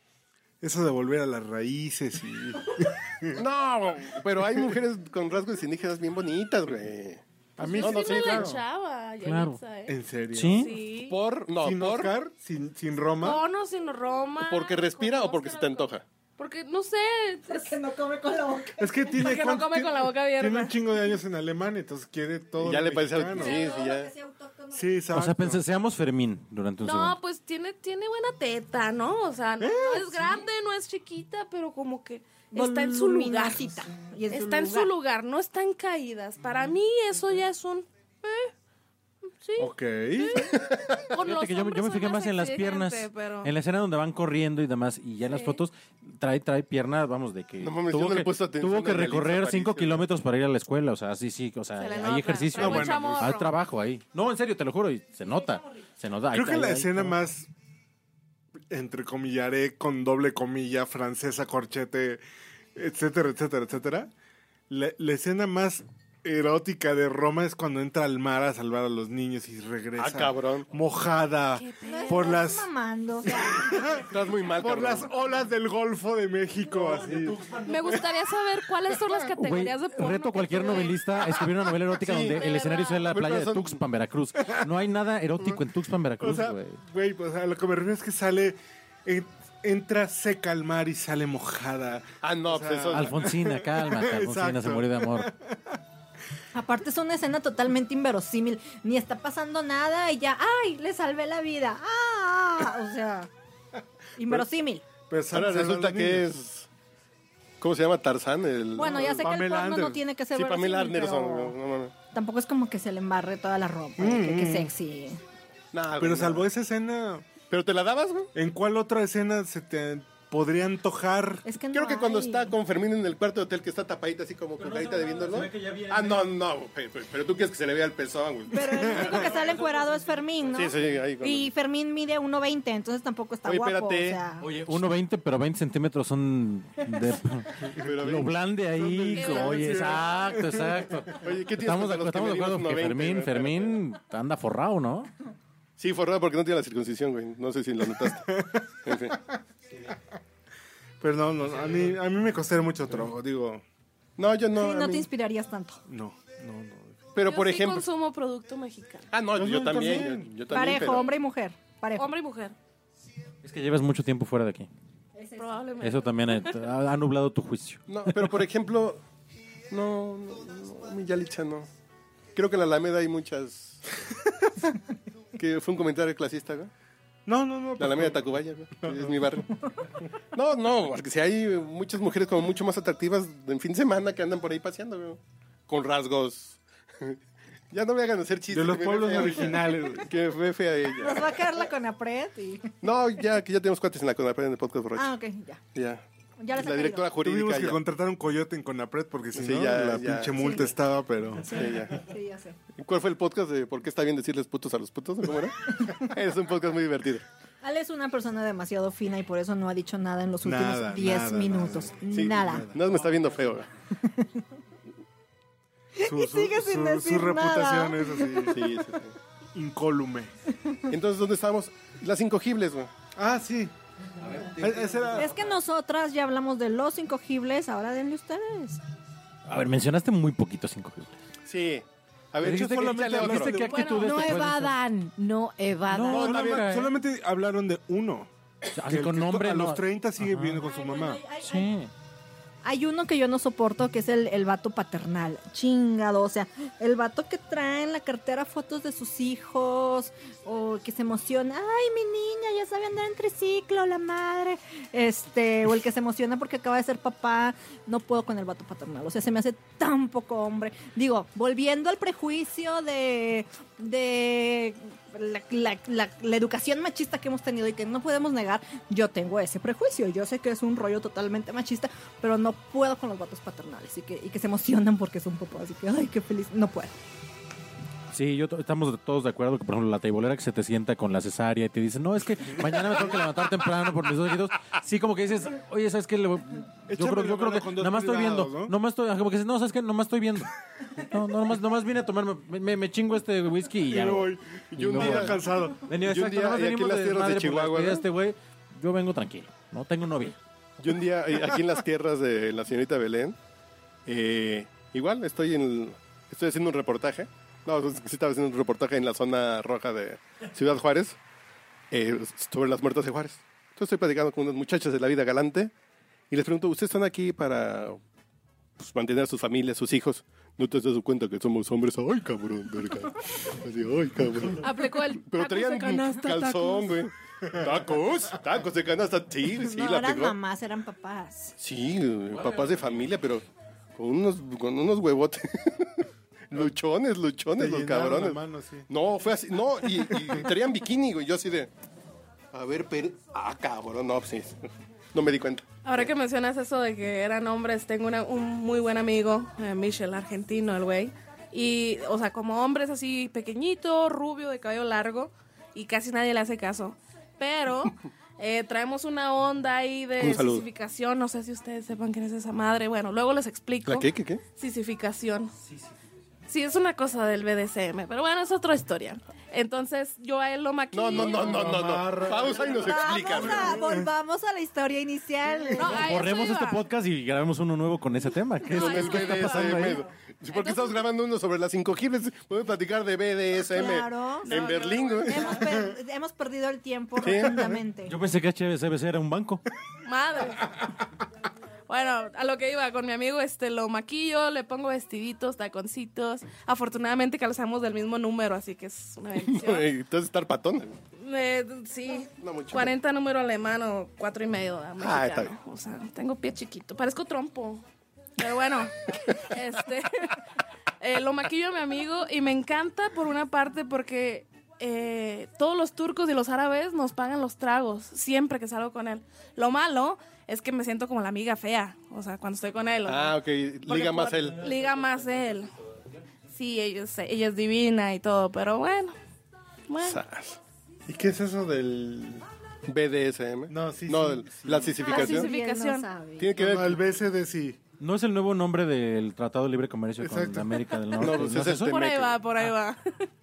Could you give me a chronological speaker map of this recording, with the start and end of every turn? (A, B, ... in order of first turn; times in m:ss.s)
0:00.6-0:03.4 A
0:03.4-0:08.6 B
0:07.6-0:08.6 A
0:07.6-0:10.0 C
0:09.2-0:09.6 D
0:09.9-0:10.7 A
0:10.3-0:10.7 D
0:10.6-0:11.2 C
0:10.9-0:12.1 B
0:11.6-0:13.4 A
0:13.2-0:17.8 C
0:14.4-0:16.0 B
0:17.5-0:19.4 E
0:18.8-0:23.7 A
0:19.2-0:20.8 C
0:22.6-0:24.1 B
0:23.4-0:25.0 E
0:24.7-0:25.6 A
0:25.1-0:27.2 D
0:26.8-0:38.5 C
0:29.6-0:30.4 A
0:32.5-0:34.9 E
0:39.4-0:43.5 C
0:39.6-0:40.6 A
0:40.4-0:41.2 B
0:41.2-0:57.1 D
0:45.3-0:45.6 C
0:47.6-0:50.0 B
0:51.8-0:53.5 C
0:52.5-0:53.4 A
0:56.3-0:57.5 A
0:58.7-1:02.2 A
1:02.7-1:04.1 A
1:04.7-1:12.7 A
1:10.0-1:10.6 B
1:11.5-1:12.3 C
1:11.8-1:14.0 E
1:13.3-1:17.5 A
1:14.0-1:15.1 B
1:16.8-1:18.0 D
1:17.6-1:21.2 C
1:18.9-1:19.1 A
1:19.4-1:26.8 D
1:22.0-1:23.8 B
1:22.4-1:23.1 C
1:26.2-1:35.8 A
1:32.2-1:33.2 B
1:32.9-1:35.3 D
1:36.5-1:43.3 E
1:44.2-1:44.8 E
1:45.1-1:46.3 A
1:45.3-1:46.7 B
1:47.6-1:49.4 B
1:48.8-1:51.6 E
1:48.8-1:50.0 A
1:50.3-1:51.9 B
1:52.1-1:55.2 E
1:54.0-1:54.7 A
1:55.7-1:56.5 B
1:56.0-1:57.3 A
1:57.5-1:58.3 B
1:58.3-2:01.4 A
2:01.4-2:02.6 E
2:01.7-2:09.2 B
2:04.6-2:06.3 D
2:08.5-2:14.5 E
2:08.7-2:09.3 A
2:09.0-2:10.9 D
2:10.5-2:11.5 B
2:13.4-2:14.2 B
2:14.4-2:25.1 D
2:17.8-2:18.4 B
2:18.8-2:21.2 A
2:19.2-2:19.6 C
2:19.2-2:20.1 B
2:21.1-2:23.8 B
2:25.8-2:28.3 B
2:28.1-2:28.6 A
2:28.8-2:29.2 B
2:31.0-2:33.6 A
2:34.2-2:35.1 B
2:34.5-2:35.8 E
2:35.9-2:37.0 A
2:37.1-2:37.9 B
2:37.2-2:39.1 C
2:39.1-2:41.1 B
2:39.3-2:41.0 A
2:40.5-2:42.1 E
2:42.0-2:42.5 C
2:43.4-2:44.7 D
2:45.1-2:46.0 E
2:45.4-2:46.5 C
2:45.8-2:48.3 D
2:47.9-2:49.0 B
2:49.7-2:51.7 B
2:52.3-2:53.8 B
2:55.4-2:56.7 B
2:57.2-2:59.4 A
2:57.8-2:59.5 B
3:00.3-3:07.2 B
3:07.7-3:11.5 B
3:08.5-3:10.1 A
3:11.0-3:12.8 E
3:12.8-3:15.1 B
3:15.0-3:15.6 E
3:15.7-3:17.8 B
3:16.4-3:17.1 E
3:17.2-3:21.6 A
3:19.3-3:20.4 B
3:20.3-3:20.7 E
3:21.4-3:22.6 E
3:21.5-3:22.0 B
3:22.8-3:27.2 B
3:27.6-3:32.7 E
3:30.4-3:32.8 A
3:32.1-3:33.7 B
3:34.0-3:34.4 E
3:36.0-3:38.8 E
3:36.0-3:38.6 A
3:38.5-3:39.1 B
3:39.5-3:40.3 A
3:40.9-3:42.9 B
3:43.2-3:43.7 A
3:44.2-3:45.4 D
3:44.6-3:45.3 A
3:45.2-3:48.8 E
3:49.5-3:51.1 D
3:51.5-3:53.9 B
3:52.4-3:54.0 A
3:52.4-3:54.7 D
3:53.6-3:54.7 E
3:54.0-3:56.4 F
3:55.9-3:56.9 D
3:56.1-4:01.2 A
3:56.2-3:56.6 B
3:58.7-4:00.6 D
4:00.7-4:01.7 E
4:01.4-4:01.9 D
4:02.6-4:36.9 E
4:38.1-5:00.4 D
4:46.9-4:48.7 A
4:53.9-4:55.9 A
4:54.7-4:55.4 B
4:56.0-4:58.0 B
5:00.8-5:03.4 B
5:04.0-5:11.2 B
5:11.9-5:15.7 B
5:16.3-5:18.0 B
5:18.8-5:30.4 B
5:24.6-5:27.0 C
5:26.0-5:26.6 E
5:29.4-5:31.6 E
5:31.6-5:33.4 B
5:32.3-5:33.2 D
5:34.0-5:41.7 B
5:37.6-5:38.9 A
5:42.5-5:44.6 B
5:45.1-5:45.6 B
5:45.8-6:05.5 C
6:00.2-6:00.6 B
6:03.8-6:04.4 B
6:06.5-6:11.8 C
6:10.9-6:13.8 B
6:11.2-6:14.1 A
6:12.6-6:13.4 C
6:12.8-6:16.0 E
6:15.8-6:16.8 C
6:15.9-6:20.0 D
6:18.6-6:21.0 C
6:18.7-6:25.6 B
6:23.6-6:24.6 E
6:24.4-6:25.6 C
6:25.2-6:28.1 E
6:27.2-6:27.6 B
6:28.0-6:29.6 D
6:30.0-6:30.8 C
6:31.9-6:39.9 C
6:39.4-6:41.0 B
6:41.2-6:47.8 C
6:42.4-6:43.0 B
6:45.0-6:45.5 B
6:48.4-6:50.4 C
6:51.0-7:05.7 C
7:03.0-7:04.7 B
7:06.5-7:09.1 C
7:09.9-7:10.2 C
7:10.0-7:10.6 B
7:11.1-7:12.4 A
7:12.9-7:15.5 B
7:13.7-7:15.1 A
7:15.0-7:16.1 C
7:15.0-7:16.5 E
7:16.4-7:17.0 B
7:16.5-7:17.8 A
7:18.0-7:22.0 D
7:20.2-7:21.2 A
7:21.2-7:22.5 B
7:21.9-7:23.2 C